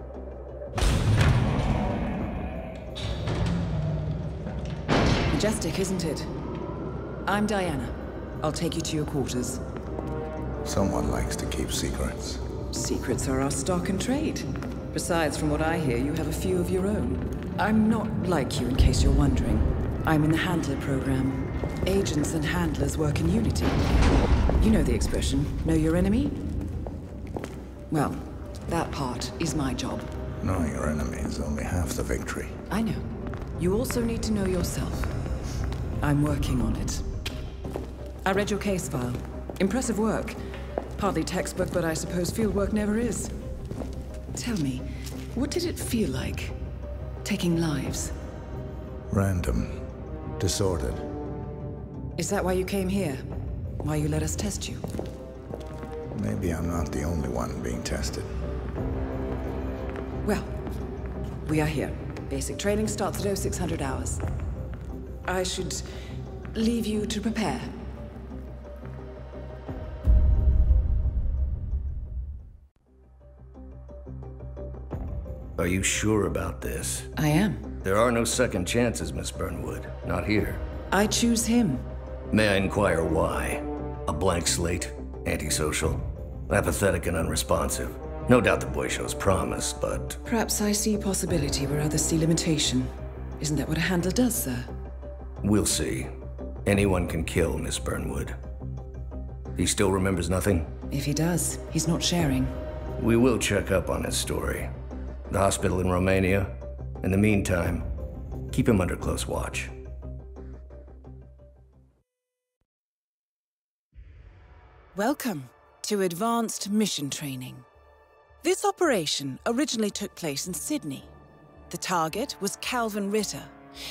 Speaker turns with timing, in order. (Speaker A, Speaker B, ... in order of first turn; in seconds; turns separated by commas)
Speaker A: 5.3-6.3, Speaker A: 7.3-9.6, Speaker B: 10.7-12.4, Speaker A: 12.7-23.8, Speaker A: 24.6-26.5, Speaker A: 27.9-30.1, Speaker B: 30.4-32.5, Speaker A: 32.7-33.1, Speaker A: 33.6-35.1, Speaker A: 36.0-37.0, Speaker A: 38.2-40.4, Speaker A: 41.0-43.3, Speaker A: 44.3-46.6, Speaker A: 47.2-48.1, Speaker B: 49.1-49.8, Speaker B: 50.4-51.1, Speaker A: 52.2-53.3, Speaker A: 53.8-54.8, Speaker B: 56.1-58.3, Speaker A: 60.2-60.5, Speaker A: 61.5-64.2, Speaker A: 65.3-65.9, Speaker A: 66.5-67.8, Speaker C: 75.6-77.1, Speaker A: 77.2-77.7, Speaker C: 77.8-80.7, Speaker A: 80.9-81.9, Speaker C: 82.3-90.2, Speaker A: 90.2-94.7, Speaker C: 95.4-96.1, Speaker C: 96.7-98.4, Speaker C: 99.6-100.7, Speaker A: 100.9-102.6, Speaker C: 103.0-104.7, Speaker C: 105.3-107.9, Speaker C: 108.5-109.8, Speaker A: 115.0-117.7, Speaker A: 118.4-121.1, Speaker A: 121.7-123.5